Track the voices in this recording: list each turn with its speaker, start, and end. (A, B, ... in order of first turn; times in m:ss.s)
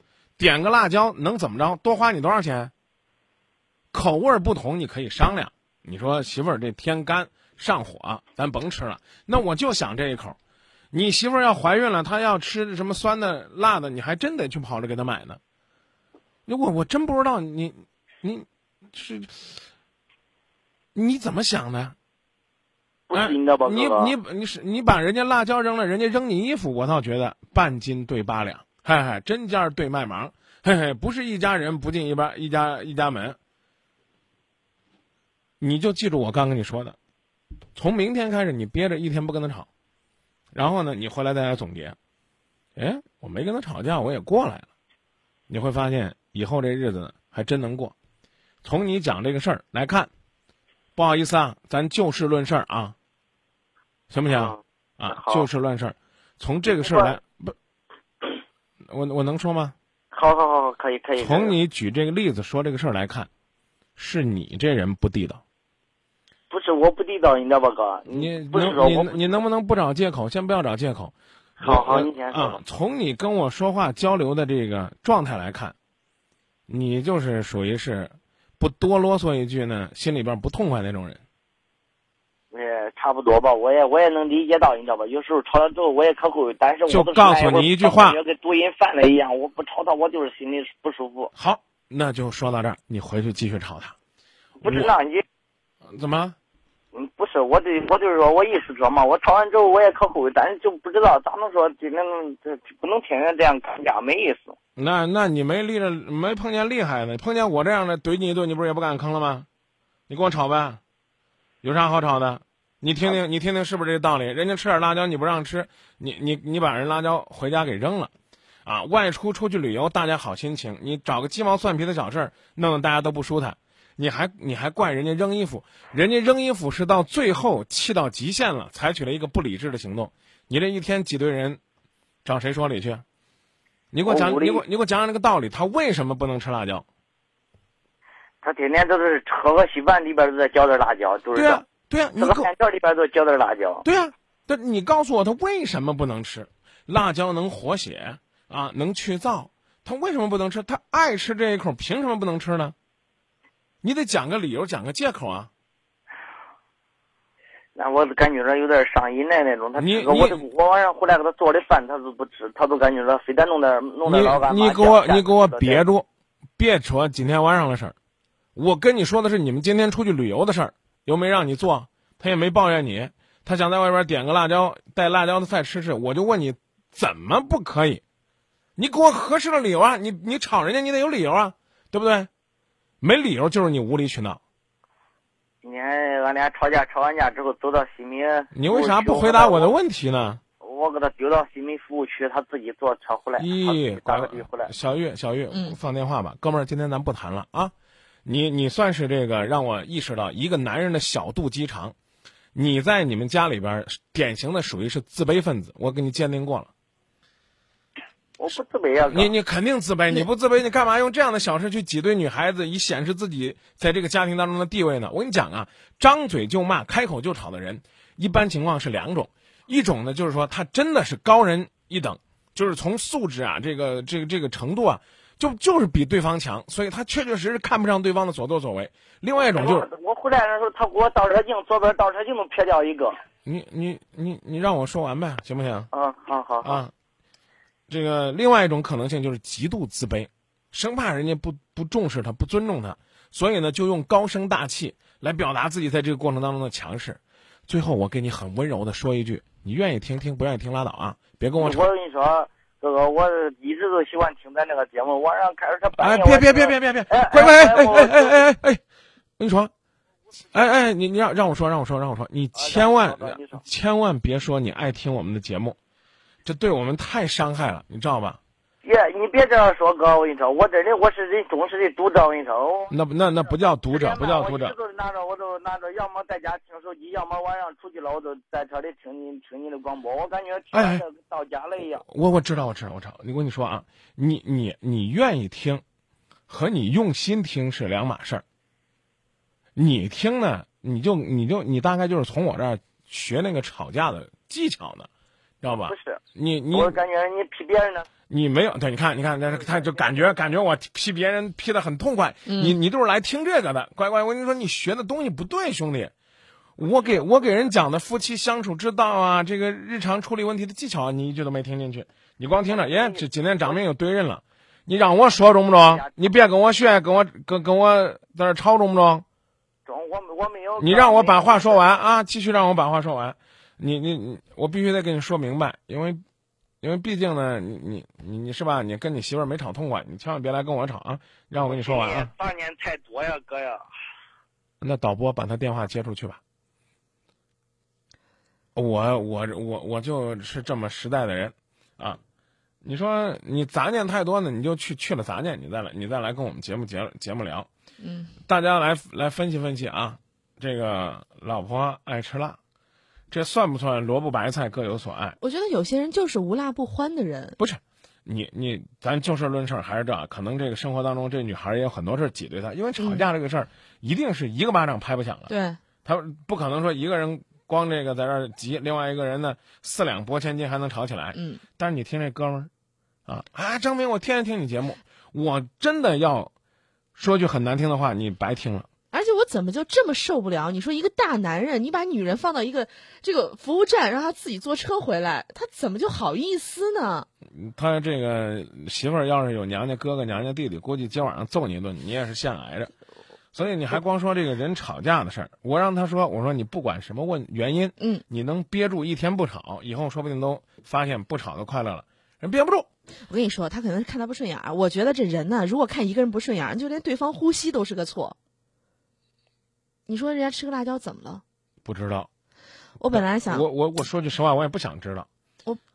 0:00.4-0:02.7 A
0:03.9-0:10.4 A
0:10.9-0:15.4 A
0:16.5-0:19.5 A
0:20.9-0:22.0 A
0:23.1-0:24.1 B
0:23.1-0:33.4 A
0:35.6-0:37.0 A
0:37.7-0:39.7 A
0:40.5-0:42.0 A
0:42.8-0:44.7 A
0:45.5-0:47.9 A
0:48.6-0:50.1 A
0:51.0-0:52.9 A
0:54.1-0:57.5 A
0:54.3-0:55.5 B
0:56.7-0:57.2 B
0:58.9-0:59.7 A
1:00.1-1:01.6 B
1:01.2-1:03.3 A
1:04.0-1:05.4 A
1:06.5-1:09.4 B
1:08.1-1:15.7 A
1:11.6-1:12.6 B
1:16.7-1:21.2 A
1:22.5-1:31.3 B
1:26.9-1:28.2 A
1:31.3-1:33.9 A
1:34.6-1:35.2 B
1:34.6-1:34.9 A
1:35.9-1:36.4 A
1:36.9-1:44.6 B
1:44.8-1:49.5 A
1:50.1-1:50.8 A
1:51.6-1:58.1 A
1:58.6-2:11.6 A
2:12.2-2:13.0 A
2:13.9-2:16.8 A
2:14.1-2:14.6 B
2:18.4-2:21.6 B
2:21.3-2:22.5 A
2:22.2-2:23.8 B
2:23.8-2:32.7 A
2:33.8-2:35.5 A
2:37.8-2:45.8 B
2:39.8-2:40.4 A
2:44.0-2:46.0 A
2:46.6-2:47.9 A
2:48.6-2:58.0 A
2:58.8-3:02.3 A
3:03.0-3:04.4 A
3:05.6-3:09.7 B
3:08.5-3:10.4 A
3:10.6-3:14.7 B
3:13.4-3:17.7 A
3:15.5-3:15.8 C
3:18.2-3:21.9 A
3:22.5-3:26.7 A
3:28.4-3:29.3 B
3:29.1-3:49.9 A
3:49.3-3:53.1 B
3:53.4-3:55.9 A
3:55.9-3:56.8 B
3:56.6-3:56.9 A
3:57.9-4:11.9 A
4:11.6-4:18.4 B
4:16.0-4:18.8 A
4:19.4-4:19.7 A
4:20.5-4:25.8 A
4:22.5-4:23.6 B
4:26.4-4:28.4 A
4:28.8-4:32.9 B
4:32.9-4:34.7 A
4:33.9-4:42.0 B
4:40.7-4:41.0 A
4:42.0-4:45.8 A
4:46.5-4:48.4 A
4:49.8-4:55.1 A
4:55.6-4:57.0 A
4:55.6-4:56.2 B
4:56.7-4:58.1 B
4:58.3-5:06.1 A
4:59.6-5:00.2 B
5:02.4-5:02.8 C
5:06.8-5:19.2 A
5:07.0-5:07.4 B
5:12.6-5:13.8 B
5:15.9-5:16.2 B
5:19.8-5:22.0 B
5:20.8-5:26.2 A
5:26.8-5:32.3 A
5:31.6-5:33.9 B
5:34.8-5:36.4 A
5:38.7-5:42.2 A
5:42.8-5:47.7 A
5:48.0-5:48.4 C
5:48.4-5:52.6 A
5:53.3-5:55.4 A
5:55.4-5:57.6 C
5:57.6-6:05.5 A
6:03.0-6:03.3 C
6:05.5-6:05.8 C
6:06.0-6:12.7 A
6:11.3-6:11.6 C
6:13.2-6:16.5 A
6:17.1-6:18.9 A
6:19.1-6:27.3 C
6:27.5-6:32.9 A
6:33.5-6:42.9 A
6:43.3-6:48.4 C
6:50.1-6:51.4 C
6:51.8-6:52.3 A
6:53.0-6:53.6 C
6:53.1-6:55.2 A